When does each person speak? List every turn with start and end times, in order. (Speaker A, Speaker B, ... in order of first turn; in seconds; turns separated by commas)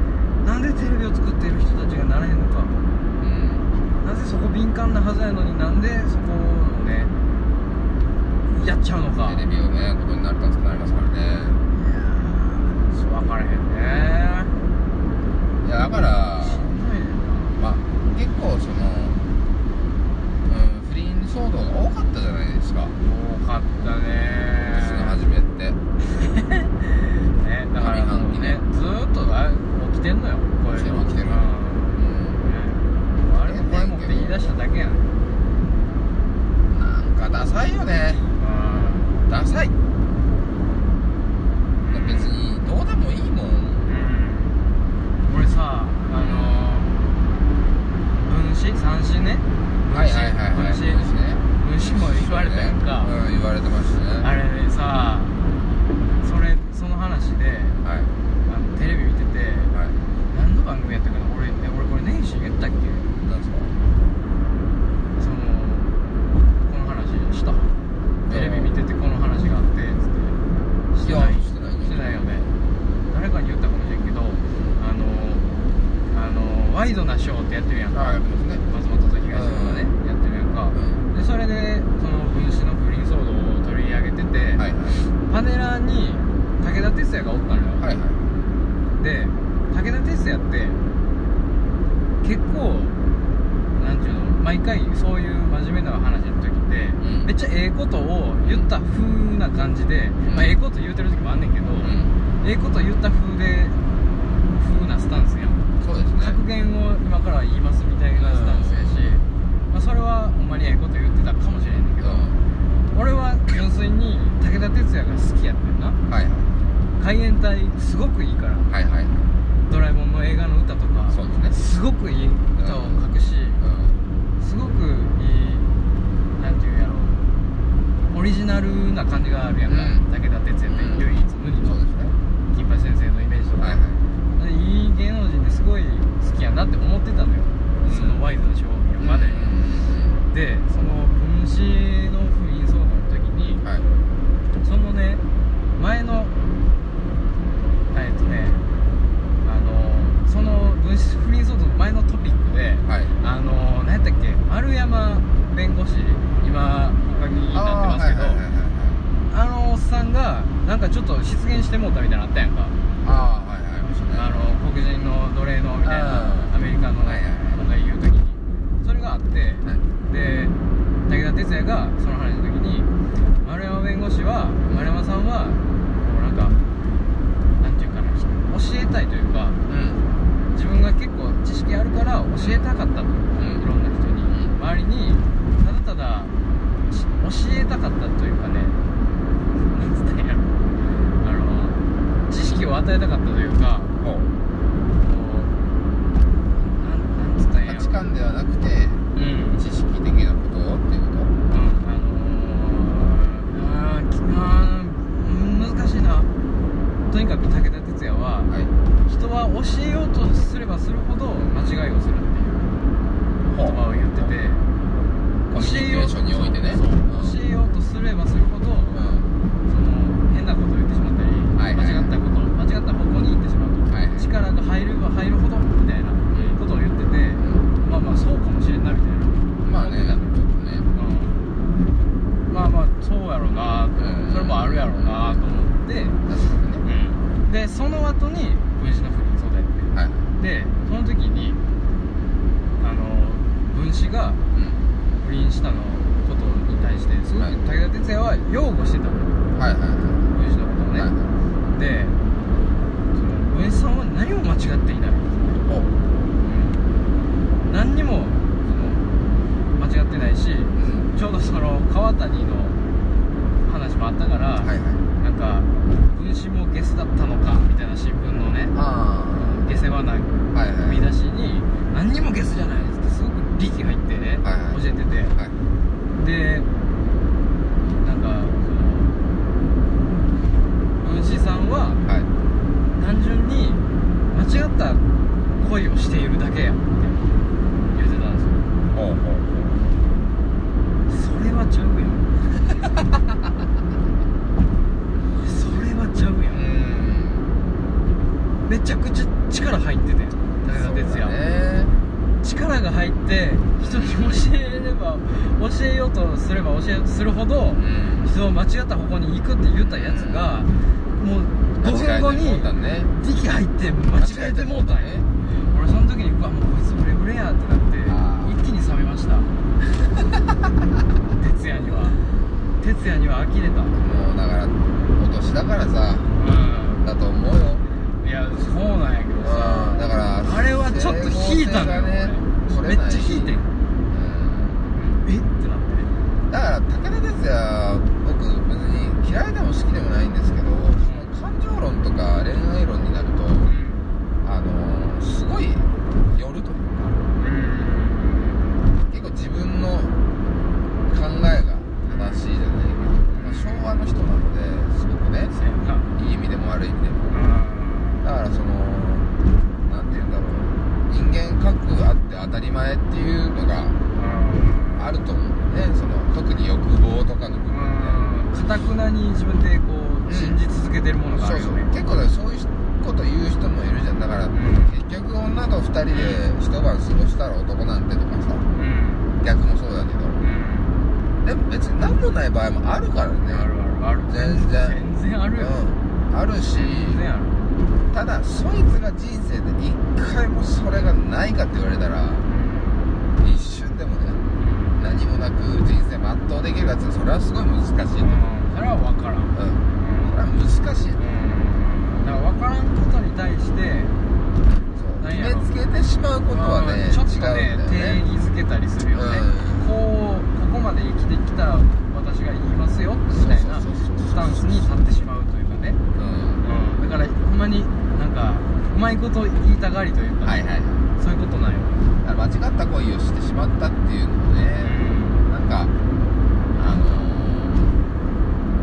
Speaker A: 0.4-2.8, Speaker B: 3.2-3.7, Speaker A: 3.9-7.1, Speaker A: 8.5-9.4, Speaker B: 9.2-11.6, Speaker A: 11.7-14.6, Speaker B: 15.6-16.7, Speaker A: 16.4-17.6, Speaker B: 17.6-19.3, Speaker B: 20.4-22.9, Speaker A: 23.0-25.2, Speaker B: 24.6-25.8, Speaker A: 26.1-35.1, Speaker B: 27.8-28.6, Speaker B: 30.7-32.4, Speaker B: 33.4-34.5, Speaker B: 36.7-38.3, Speaker A: 38.4-39.1, Speaker B: 39.3-39.7, Speaker A: 41.8-42.3, Speaker B: 41.9-43.9, Speaker A: 43.8-44.6, Speaker A: 45.2-46.9, Speaker A: 48.2-51.0, Speaker B: 49.9-54.3, Speaker A: 51.6-53.1, Speaker A: 54.2-55.4, Speaker A: 56.2-57.8, Speaker B: 57.8-58.1, Speaker A: 58.5-59.7, Speaker B: 59.7-60.0, Speaker A: 60.3-63.1, Speaker B: 63.2-63.8, Speaker A: 65.1-66.0, Speaker A: 66.6-67.8, Speaker B: 68.2-68.7, Speaker A: 68.3-70.4, Speaker A: 70.9-72.5, Speaker B: 71.0-72.2, Speaker A: 73.1-75.5, Speaker A: 76.1-87.8, Speaker B: 77.9-78.6, Speaker B: 79.3-79.9, Speaker B: 80.7-81.0, Speaker B: 84.5-85.1, Speaker B: 87.8-88.4, Speaker A: 88.9-90.8, Speaker A: 92.2-93.0, Speaker A: 93.7-103.8, Speaker B: 97.0-97.3, Speaker B: 100.2-100.5, Speaker B: 101.8-102.1, Speaker A: 104.5-112.3, Speaker B: 105.8-106.4, Speaker B: 108.2-109.2, Speaker B: 112.0-112.4, Speaker A: 112.9-116.0, Speaker B: 116.1-116.5, Speaker A: 117.0-118.7, Speaker B: 118.7-119.2, Speaker A: 119.6-123.6, Speaker B: 121.1-121.6, Speaker B: 122.5-123.0, Speaker B: 123.6-124.0, Speaker A: 124.4-125.7, Speaker A: 126.4-127.2, Speaker A: 128.1-131.8, Speaker B: 129.7-130.1, Speaker B: 130.7-131.1, Speaker B: 131.6-132.2, Speaker A: 132.5-133.8, Speaker B: 133.6-134.0, Speaker A: 134.3-139.5, Speaker B: 137.8-138.2, Speaker B: 139.0-140.2, Speaker A: 140.3-143.6, Speaker B: 143.6-143.9, Speaker A: 144.6-145.2, Speaker A: 145.7-146.3, Speaker A: 147.9-148.6, Speaker A: 149.4-158.4, Speaker B: 152.8-153.1, Speaker B: 157.5-159.0, Speaker A: 159.3-162.8, Speaker B: 163.0-164.3, Speaker A: 164.1-172.9, Speaker B: 165.8-167.6, Speaker A: 173.4-176.6, Speaker A: 177.6-179.6, Speaker B: 179.7-180.0, Speaker A: 180.5-186.3, Speaker B: 182.4-182.6, Speaker B: 183.4-183.6, Speaker B: 184.3-184.5, Speaker A: 186.9-188.8, Speaker A: 189.6-190.5, Speaker A: 191.2-193.9, Speaker B: 194.0-194.3, Speaker A: 195.0-195.5, Speaker A: 196.6-198.0, Speaker B: 197.6-201.3, Speaker A: 199.1-199.6, Speaker A: 201.5-206.3, Speaker A: 207.1-208.5, Speaker A: 209.1-212.7, Speaker B: 211.4-211.8, Speaker B: 213.4-213.8, Speaker A: 213.6-214.7, Speaker B: 215.5-217.3, Speaker A: 215.5-219.0, Speaker B: 218.9-219.3, Speaker A: 219.7-230.4, Speaker B: 221.6-222.1, Speaker B: 223.9-224.3, Speaker B: 226.3-226.6, Speaker B: 227.4-227.7, Speaker B: 229.6-230.9, Speaker A: 230.9-231.4, Speaker A: 232.5-236.2, Speaker B: 234.0-235.4, Speaker B: 236.2-236.8, Speaker A: 236.8-241.6, Speaker B: 239.9-240.3, Speaker A: 242.8-244.4, Speaker B: 244.5-244.8, Speaker A: 245.2-249.4, Speaker B: 249.5-250.3, Speaker A: 250.3-251.1, Speaker B: 250.9-251.3, Speaker A: 251.7-252.2, Speaker A: 253.1-255.6, Speaker B: 255.5-255.9, Speaker A: 256.4-256.8, Speaker A: 257.6-259.1, Speaker A: 259.7-262.8, Speaker B: 260.7-261.1, Speaker A: 263.6-268.7, Speaker B: 264.6-265.0, Speaker B: 268.7-269.6, Speaker A: 269.4-275.3, Speaker B: 270.5-271.0, Speaker B: 274.4-274.8, Speaker A: 276.1-276.7, Speaker A: 278.0-279.2, Speaker A: 281.0-282.0, Speaker B: 282.0-282.3, Speaker A: 282.9-285.0, Speaker A: 285.6-287.2, Speaker A: 287.9-288.6, Speaker B: 288.9-289.9, Speaker A: 291.1-292.3, Speaker A: 295.4-296.6, Speaker B: 296.5-297.5, Speaker A: 298.6-301.4, Speaker B: 300.6-301.9, Speaker A: 302.4-312.7, Speaker B: 303.8-304.4, Speaker B: 307.8-308.3, Speaker B: 309.9-310.5, Speaker B: 311.8-313.1, Speaker A: 313.2-319.5, Speaker B: 314.1-315.3, Speaker B: 318.1-318.6, Speaker A: 321.4-322.2, Speaker A: 322.8-324.0, Speaker B: 323.9-326.3, Speaker A: 326.4-327.0, Speaker B: 327.0-327.8, Speaker A: 328.2-333.7, Speaker B: 329.4-333.6, Speaker B: 334.1-334.8, Speaker A: 334.9-336.1, Speaker B: 336.5-343.7, Speaker A: 341.0-341.3, Speaker A: 343.6-344.1, Speaker B: 344.4-347.2, Speaker A: 347.3-348.7, Speaker B: 349.1-350.1, Speaker B: 351.1-355.5, Speaker A: 353.3-353.7, Speaker A: 355.5-356.1, Speaker B: 356.1-357.3, Speaker A: 357.3-358.2, Speaker B: 358.2-364.0, Speaker A: 364.1-365.1, Speaker B: 364.9-368.2, Speaker A: 367.7-371.9, Speaker B: 370.3-370.6, Speaker B: 371.3-378.6, Speaker A: 374.5-374.9, Speaker A: 376.1-376.4, Speaker A: 378.7-379.3, Speaker B: 379.4-380.4, Speaker A: 380.4-381.0, Speaker B: 381.4-383.7, Speaker A: 383.5-385.8, Speaker B: 384.3-385.0, Speaker B: 385.6-387.2, Speaker A: 386.8-387.6, Speaker B: 388.1-392.4, Speaker A: 392.4-393.1, Speaker B: 393.4-394.4, Speaker A: 394.6-395.0, Speaker B: 395.0-398.4, Speaker A: 398.2-400.4, Speaker B: 399.5-401.3, Speaker A: 401.1-404.1, Speaker B: 404.9-408.2, Speaker A: 405.2-405.7, Speaker A: 406.5-416.0, Speaker B: 409.1-409.9, Speaker B: 413.3-414.9, Speaker B: 416.1-416.6, Speaker A: 416.6-420.6, Speaker B: 420.4-421.1, Speaker A: 421.2-422.0, Speaker B: 422.2-425.9, Speaker A: 424.8-425.4, Speaker B: 426.7-428.0